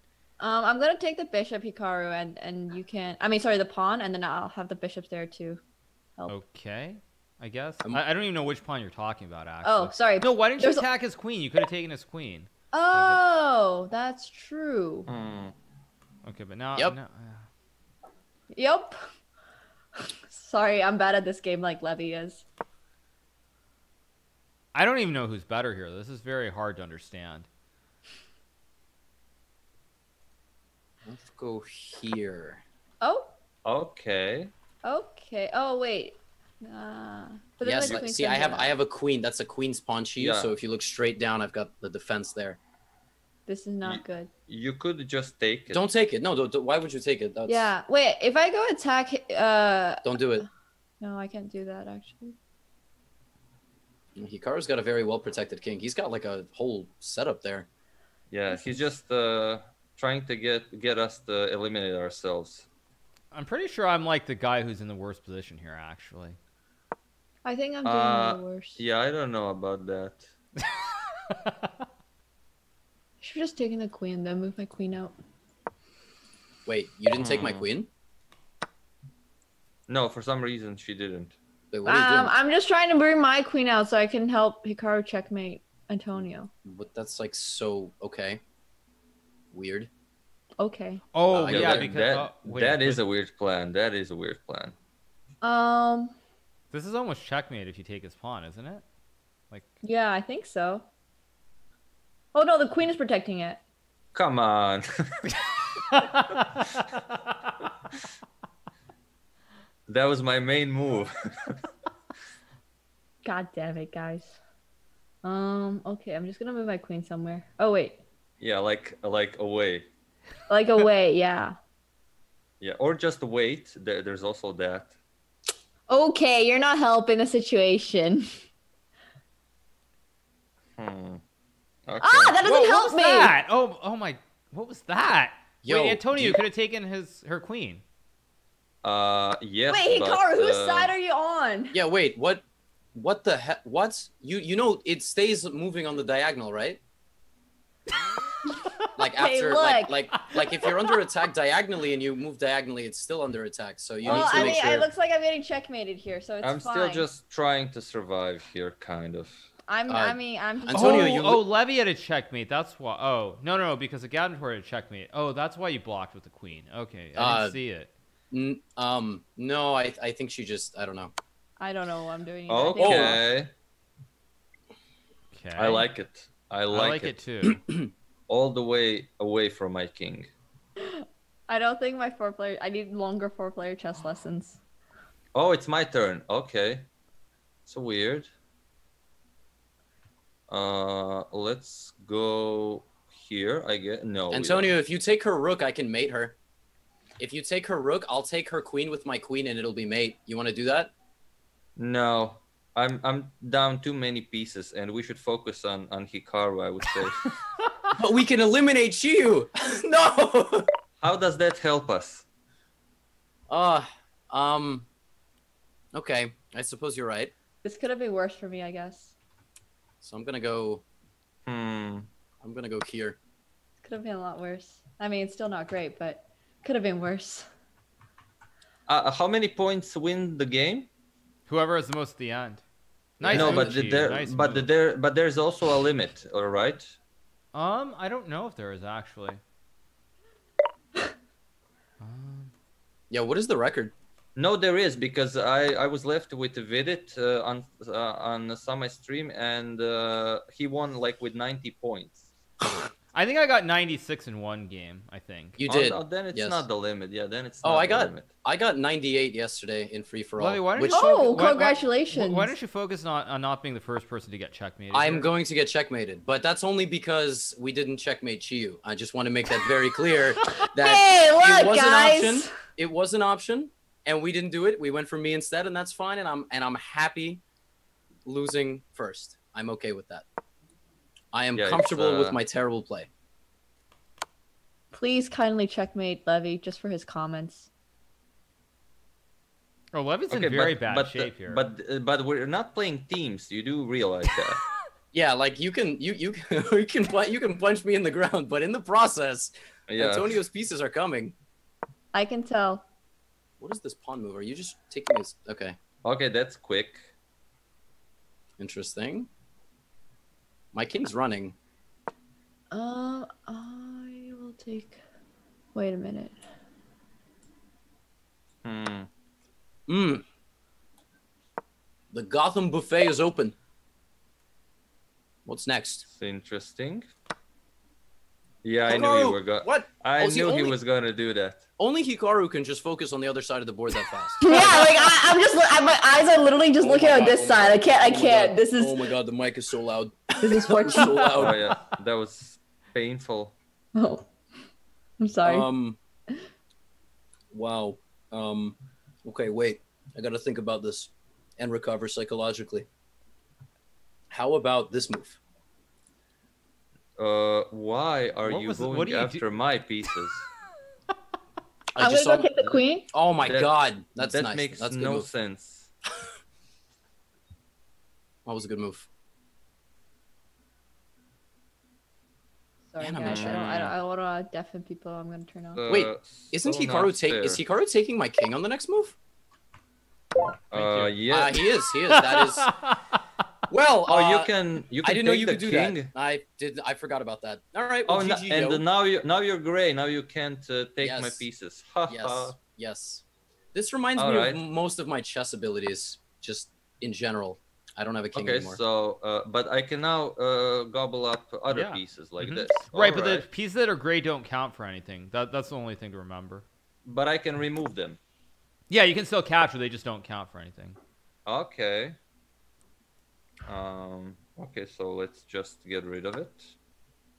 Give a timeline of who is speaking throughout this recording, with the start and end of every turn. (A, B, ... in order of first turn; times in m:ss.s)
0:00.4-0:05.6 A
0:06.3-0:13.2 B
0:09.6-0:10.9 A
0:12.7-0:15.1 A
0:15.1-0:15.5 C
0:16.2-0:17.5 B
0:18.5-0:19.0 A
0:20.0-0:22.4 A
0:24.8-0:27.5 B
0:31.1-0:32.6 D
0:33.0-0:33.3 A
0:33.6-0:34.5 C
0:34.8-0:38.7 A
0:37.6-0:42.6 D
0:40.2-0:40.5 C
0:43.5-0:44.3 A
0:43.8-0:45.8 C
0:45.7-0:47.7 D
0:47.5-0:50.5 A
0:50.0-0:50.5 D
0:51.0-0:52.4 A
0:54.2-0:57.7 D
0:58.3-1:02.7 C
0:58.5-0:58.9 A
1:03.3-1:06.4 B
1:07.4-1:08.8 A
1:07.8-1:10.3 C
1:13.2-1:15.1 A
1:16.7-1:17.9 D
1:17.2-1:17.7 C
1:19.9-1:21.4 C
1:21.7-1:22.3 D
1:21.8-1:26.5 A
1:26.6-1:28.4 D
1:29.5-1:29.9 D
1:30.6-1:31.0 A
1:31.1-1:33.0 B
1:31.3-1:31.9 D
1:31.4-1:34.8 C
1:35.4-1:36.2 A
1:36.7-1:38.8 B
1:39.8-1:40.9 A
1:42.3-1:43.6 A
1:44.1-1:45.5 C
1:45.9-1:46.8 B
1:49.9-1:51.6 C
1:53.2-1:54.4 A
1:55.2-1:58.0 A
1:58.4-1:59.9 C
2:00.5-2:01.6 A
2:02.6-2:04.9 C
2:05.9-2:08.3 A
2:10.8-2:11.2 C
2:11.9-2:12.4 C
2:12.0-2:13.3 A
2:12.4-2:17.8 B
2:15.6-2:16.4 D
2:18.8-2:20.9 C
2:19.7-2:21.8 A
2:21.7-2:22.4 D
2:23.0-2:26.8 D
2:28.6-2:30.1 A
2:29.0-2:34.9 D
2:34.0-2:34.9 C
2:34.0-2:37.1 A
2:36.4-2:39.4 C
2:39.7-2:41.2 A
2:39.9-2:41.4 D
2:40.7-2:47.9 B
2:47.2-2:47.6 D
2:48.3-2:51.1 D
2:51.6-2:53.2 A
2:52.5-2:53.5 C
2:52.8-2:53.1 D
2:55.3-2:55.9 B
2:55.6-2:57.1 C
2:56.7-2:57.6 B
2:57.5-2:57.9 D
2:58.3-3:00.3 C
3:00.8-3:04.6 A
3:05.4-3:06.9 C
3:07.7-3:08.3 C
3:10.5-3:14.7 C
3:14.3-3:16.4 D
3:17.2-3:20.9 D
3:21.8-3:27.4 C
3:28.0-3:30.7 D
3:31.0-3:32.2 C
3:33.5-3:34.9 D
3:35.9-3:37.3 D
3:37.6-3:39.1 A
3:40.0-3:40.8 D
3:41.5-3:42.1 C
3:42.4-3:43.2 D
3:43.8-3:47.5 A
3:48.9-3:50.9 C
3:51.5-3:52.6 B
3:53.2-3:53.8 D
3:53.2-3:54.7 B
3:53.3-3:57.0 C
3:57.5-3:59.4 B
4:02.0-4:02.5 B
4:03.1-4:03.9 D
4:04.4-4:12.3 C
4:13.1-4:15.6 B
4:15.6-4:16.7 D
4:15.7-4:18.3 C
4:17.6-4:21.1 D
4:20.4-4:25.3 B
4:20.9-4:22.5 A
4:24.9-4:37.4 D
4:30.6-4:32.6 A
4:38.2-4:40.2 D
4:41.3-4:43.1 D
4:41.6-4:42.4 C
4:44.9-4:47.7 A
4:49.9-4:51.6 B
4:50.3-4:54.6 C
4:55.1-5:01.4 D
4:59.9-5:00.4 C
5:02.1-5:02.8 A
5:03.6-5:05.8 D
5:06.0-5:07.1 C
5:08.6-5:09.3 D
5:10.7-5:11.6 D
5:12.7-5:15.0 A
5:15.7-5:16.4 A
5:18.6-5:19.1 C
5:19.9-5:20.2 D
5:22.1-5:23.6 D
5:25.5-5:26.1 D
5:26.1-5:27.1 C
5:28.6-5:31.6 C
5:28.9-5:30.8 D
5:31.8-5:34.8 D
5:34.4-5:39.1 A
5:36.8-5:41.6 D
5:40.4-5:41.2 A
5:41.3-5:43.6 C
5:44.0-5:44.3 A
5:45.2-5:45.7 A
5:45.4-5:46.0 D
5:47.5-5:52.9 D
5:54.3-5:55.4 D
5:57.2-6:00.5 C
5:58.5-5:59.4 B
6:02.0-6:05.3 D
6:02.0-6:03.1 A
6:03.4-6:05.9 C
6:08.5-6:09.1 D
6:12.9-6:15.8 A
6:13.0-6:13.6 D
6:13.2-6:14.0 C
6:15.7-6:17.6 C
6:15.9-6:19.2 D
6:20.7-6:21.7 C
6:20.7-6:21.2 B
6:21.3-6:22.7 D
6:22.1-6:23.0 B
6:23.7-6:24.5 D
6:24.1-6:26.1 C
6:25.0-6:28.8 D
6:28.1-6:32.6 C
6:31.0-6:31.5 D
6:32.1-6:38.8 D
6:34.2-6:34.6 C
6:38.3-6:43.5 C
6:41.7-6:46.7 B
6:47.0-6:48.2 C
6:48.9-6:51.0 B
6:51.5-6:52.2 C
6:53.7-6:56.7 C